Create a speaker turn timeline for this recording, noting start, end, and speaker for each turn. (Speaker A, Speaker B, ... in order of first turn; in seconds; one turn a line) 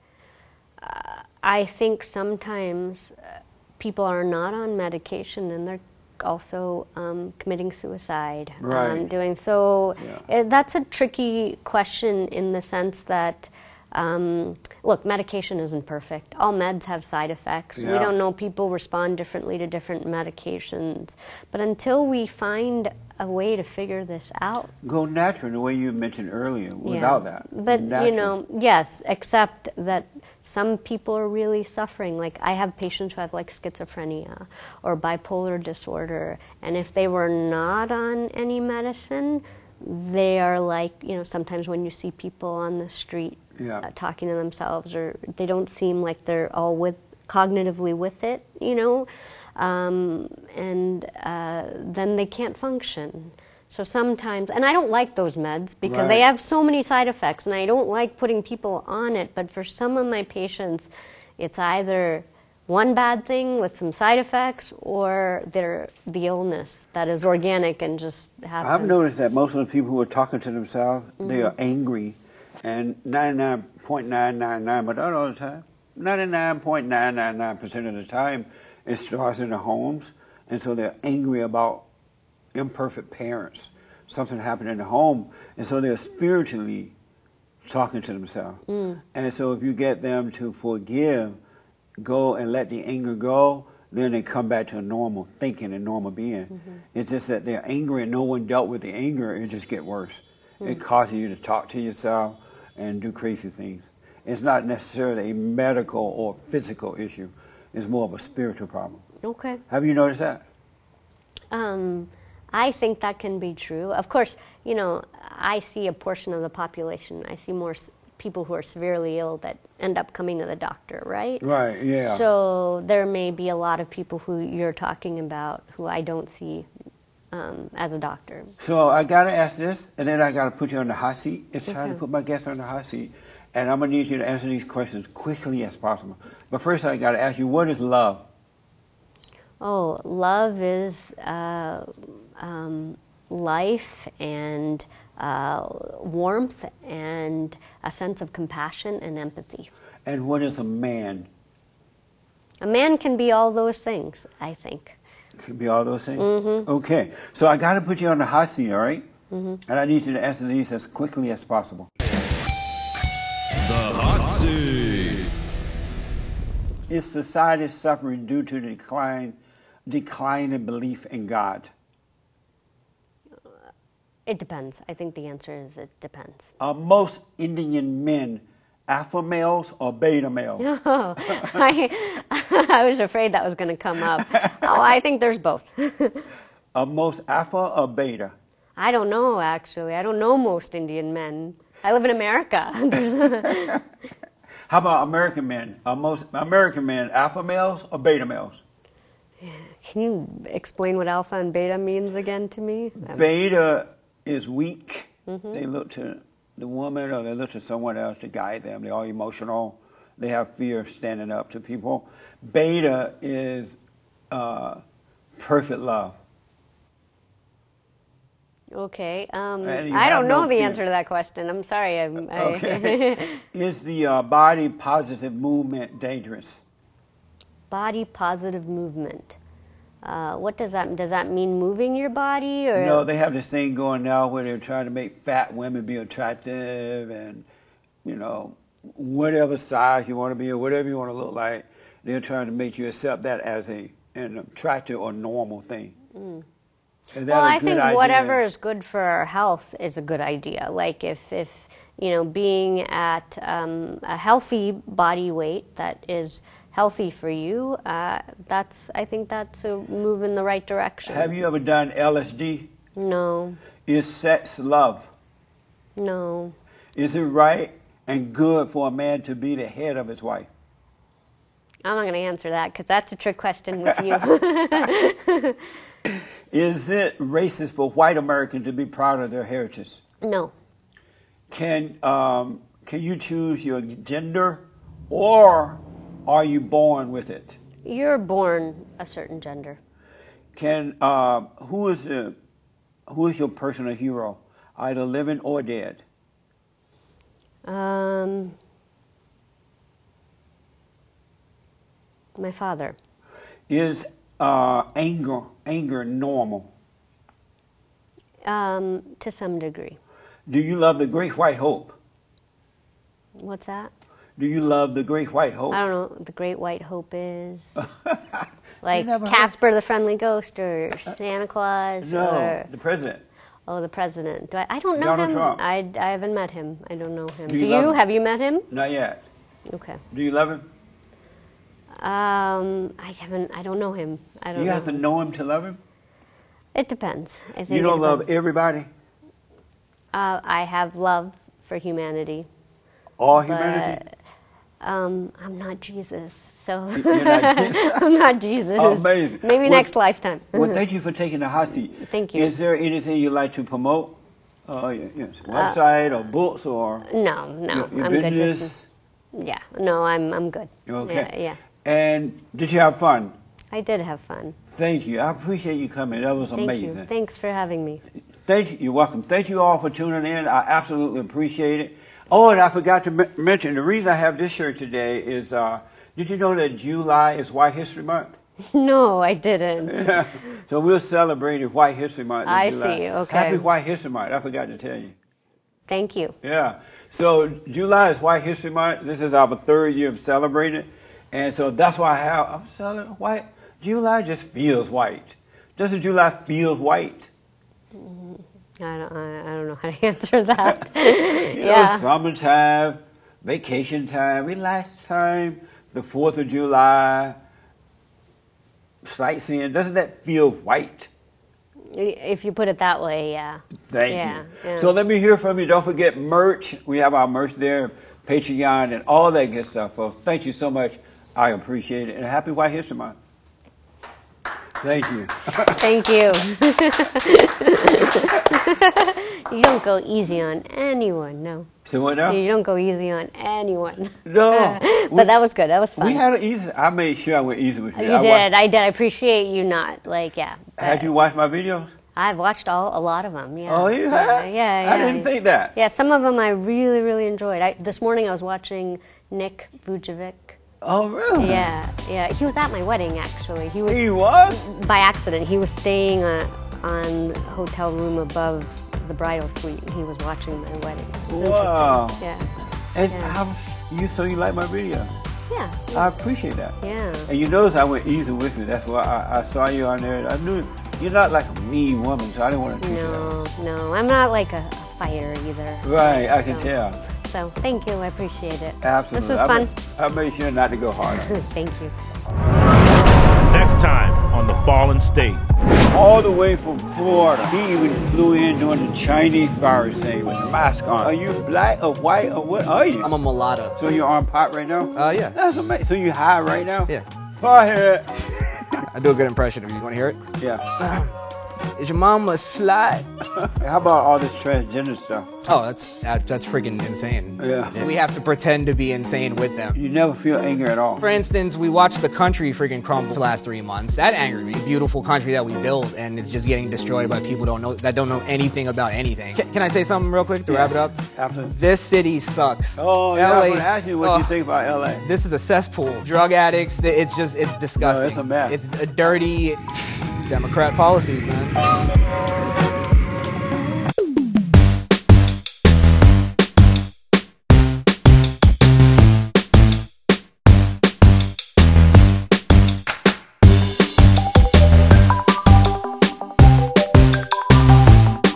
Speaker A: 0.8-24.7
Speaker B: 8.6-9.1
Speaker B: 10.0-10.2
Speaker B: 17.8-18.1
Speaker B: 24.8-28.4
Speaker A: 26.8-69.0
Speaker B: 43.6-43.9
Speaker B: 55.9-56.2
Speaker B: 68.6-81.8
Speaker A: 71.2-71.5
Speaker B: 82.5-86.9
Speaker B: 87.6-88.6
Speaker A: 88.7-89.0
Speaker B: 89.1-91.4
Speaker B: 92.0-109.0
Speaker A: 109.2-109.6
Speaker B: 109.7-110.4
Speaker A: 111.5-126.7
Speaker B: 121.4-122.2
Speaker A: 127.3-128.5
Speaker B: 128.6-138.3
Speaker A: 131.7-132.0
Speaker A: 139.6-149.7
Speaker B: 150.1-151.3
Speaker A: 152.6-155.0
Speaker B: 155.4-159.1
Speaker A: 156.2-156.7
Speaker A: 159.3-159.6
Speaker B: 159.7-161.9
Speaker C: 163.7-165.3
Speaker B: 166.9-171.7
Speaker A: 174.3-176.5
Speaker B: 176.6-180.8
Speaker A: 180.6-186.3
Speaker B: 181.3-181.7
Speaker B: 184.1-184.9
Speaker B: 186.7-188.3
Speaker A: 188.8-193.8
Speaker B: 193.4-193.7
Speaker B: 194.7-198.6
Speaker A: 199.4-203.3
Speaker B: 203.0-213.7
Speaker A: 205.3-205.6
Speaker B: 214.3-214.8
Speaker B: 215.4-216.2
Speaker A: 218.7-223.4
Speaker B: 219.6-220.8
Speaker B: 222.2-226.6
Speaker A: 227.7-229.4
Speaker A: 230.0-233.0
Speaker B: 232.8-237.5
Speaker B: 238.0-245.9
Speaker A: 246.2-246.4
Speaker B: 247.1-248.4
Speaker A: 247.3-261.3
Speaker B: 261.1-262.7
Speaker A: 263.0-263.6
Speaker B: 263.9-265.1
Speaker A: 266.0-266.6
Speaker B: 266.9-270.5
Speaker A: 271.9-275.7
Speaker B: 273.9-274.2
Speaker B: 276.1-280.0
Speaker A: 280.2-280.5
Speaker B: 281.5-287.6
Speaker A: 287.9-289.8
Speaker B: 290.6-292.4
Speaker B: 293.1-296.0
Speaker A: 297.7-298.6
Speaker A: 302.4-303.0
Speaker B: 303.7-306.7
Speaker A: 308.4-310.0
Speaker B: 310.5-312.0
Speaker A: 313.4-313.9
Speaker B: 314.4-315.8
Speaker A: 315.7-317.8
Speaker B: 317.8-319.6
Speaker A: 318.8-322.7
Speaker B: 322.0-323.2
Speaker A: 323.7-328.7
Speaker B: 325.0-325.6
Speaker B: 327.5-328.0
Speaker B: 328.7-329.3
Speaker A: 329.7-330.0
Speaker B: 330.1-330.7
Speaker A: 332.0-335.0
Speaker B: 334.5-335.8
Speaker A: 336.8-338.3
Speaker B: 337.7-338.9
Speaker A: 340.1-342.5
Speaker B: 343.2-344.0
Speaker A: 343.4-344.0
Speaker A: 344.8-350.8
Speaker B: 347.0-348.1
Speaker B: 348.8-349.9
Speaker B: 350.5-357.1
Speaker A: 352.0-352.5
Speaker A: 355.5-355.8
Speaker A: 357.1-358.7
Speaker B: 357.7-358.9
Speaker A: 359.3-361.6
Speaker B: 360.9-361.3
Speaker B: 361.8-363.4
Speaker A: 363.7-364.6
Speaker B: 364.7-367.1
Speaker A: 366.5-368.0
Speaker B: 368.4-378.4
Speaker A: 378.7-380.2
Speaker B: 379.9-385.2
Speaker A: 382.4-383.7
Speaker A: 385.9-386.4
Speaker B: 386.4-397.3
Speaker A: 397.9-402.1
Speaker B: 400.6-407.4
Speaker B: 409.0-411.1
Speaker A: 411.9-414.9
Speaker B: 413.9-423.2
Speaker B: 424.8-425.8
Speaker A: 425.7-431.7
Speaker B: 431.9-432.4
Speaker A: 432.3-436.2
Speaker B: 434.2-435.3
Speaker B: 436.0-438.6
Speaker A: 437.9-441.1
Speaker B: 440.8-441.9
Speaker A: 442.1-450.6
Speaker B: 443.7-445.8
Speaker B: 450.8-451.7
Speaker A: 451.4-462.5
Speaker B: 453.9-454.6
Speaker B: 461.3-462.3
Speaker B: 462.9-465.1
Speaker A: 463.1-463.4
Speaker A: 465.5-466.1
Speaker B: 465.9-473.4
Speaker A: 466.8-467.3
Speaker A: 472.8-479.7
Speaker B: 475.8-477.0
Speaker B: 478.8-481.4
Speaker A: 481.1-481.9
Speaker C: 483.5-485.4
Speaker B: 485.9-493.1
Speaker D: 493.0-493.8
Speaker B: 493.8-498.9
Speaker D: 495.0-495.4
Speaker D: 498.8-500.2
Speaker B: 500.4-500.6
Speaker D: 500.8-501.1
Speaker D: 501.8-503.1
Speaker B: 503.4-505.3
Speaker D: 505.4-509.8
Speaker B: 507.4-507.9
Speaker B: 509.7-511.1
Speaker D: 511.0-524.3
Speaker B: 520.5-521.6
Speaker B: 522.8-525.1
Speaker D: 525.0-531.6
Speaker B: 527.8-528.6